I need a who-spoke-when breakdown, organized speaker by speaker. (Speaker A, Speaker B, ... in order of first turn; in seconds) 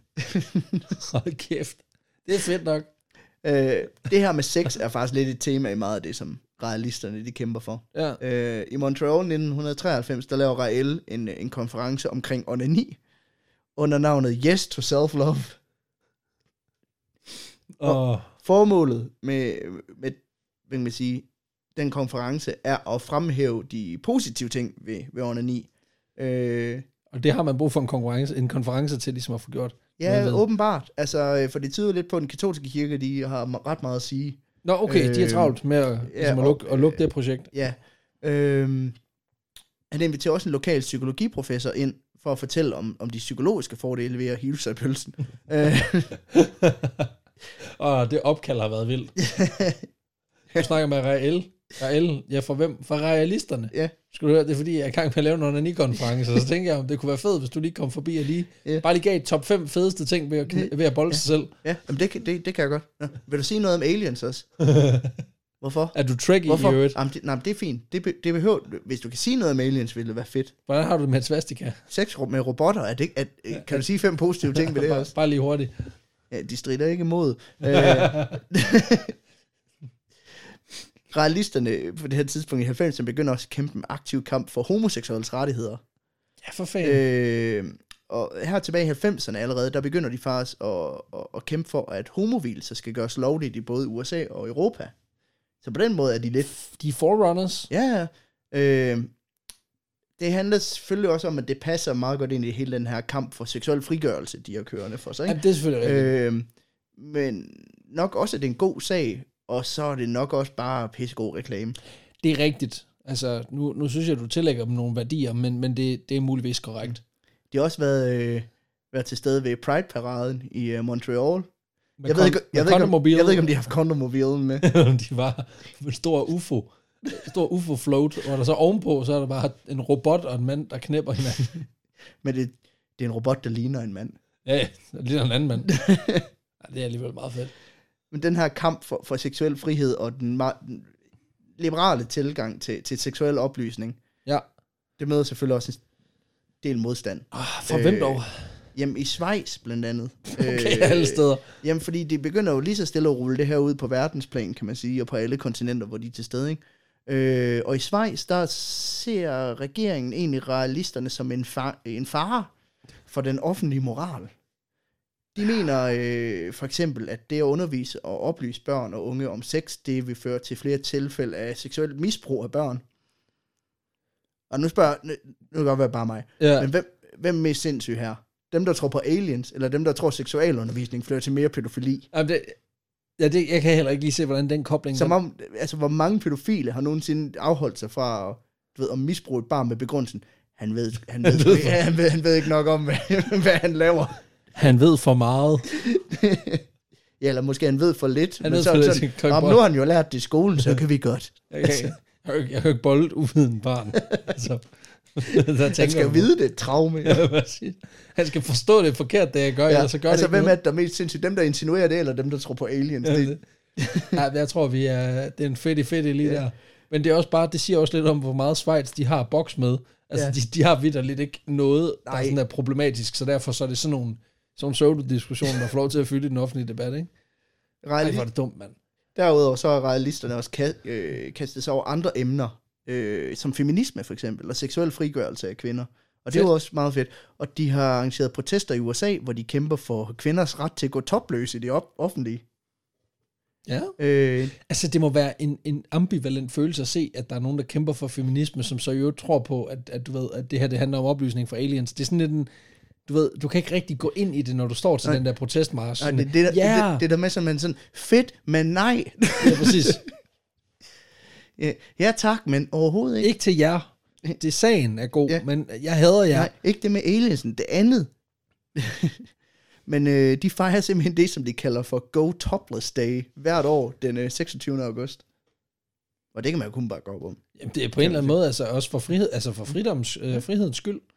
Speaker A: 0.2-0.9, 3.4-13.0, 13.8-15.6, 17.8-26.8, 30.0-37.0, 37.5-39.0, 39.9-46.2, 49.2-49.9, 60.5-64.5, 65.6-70.5, 71.9-75.1, 76.3-79.1, 81.1-85.8, 86.8-94.9, 95.6-96.5, 97.7-99.1, 100.2-111.8, 117.5-121.5, 122.0-124.6, 132.2-134.2, 135.7-136.3, 138.1-140.9, 141.6-144.0, 145.0-145.8, 146.6-148.2, 148.7-162.5, 163.1-164.3, 165.3-172.8, 174.5-182.1, 184.9-194.2, 195.7-196.6, 197.2-201.9, 205.7-207.2, 209.7-214.2, 222.1-222.4, 227.8-228.3, 229.1-242.4, 244.0-244.5, 256.0-260.0, 261.6-263.3, 266.3-268.1, 268.7-269.3, 269.9-275.2, 276.3-277.4, 278.0-278.4
Speaker B: 0.9-2.9, 7.9-8.2, 17.8-18.3, 27.1-30.4, 34.6-37.5, 46.3-49.2, 50.5-61.5, 64.6-65.2, 65.9-67.0, 70.7-71.8, 74.5-75.9, 77.7-78.4, 86.4-87.0, 96.5-97.7, 105.2-106.1, 112.2-117.0, 122.0-123.5, 124.6-131.6, 134.4-135.7, 136.6-137.5, 147.3-148.6, 150.3-151.5, 176.4-176.7, 182.1-182.6, 183.2-185.2, 191.2-191.8, 194.5-195.7, 198.4-199.6, 201.5-206.3, 207.0-210.5, 213.0-213.4, 214.1-227.1, 228.0-228.8, 243.7-243.9, 244.5-252.5, 253.1-257.0, 259.4-260.0, 263.2-266.5, 277.6-281.0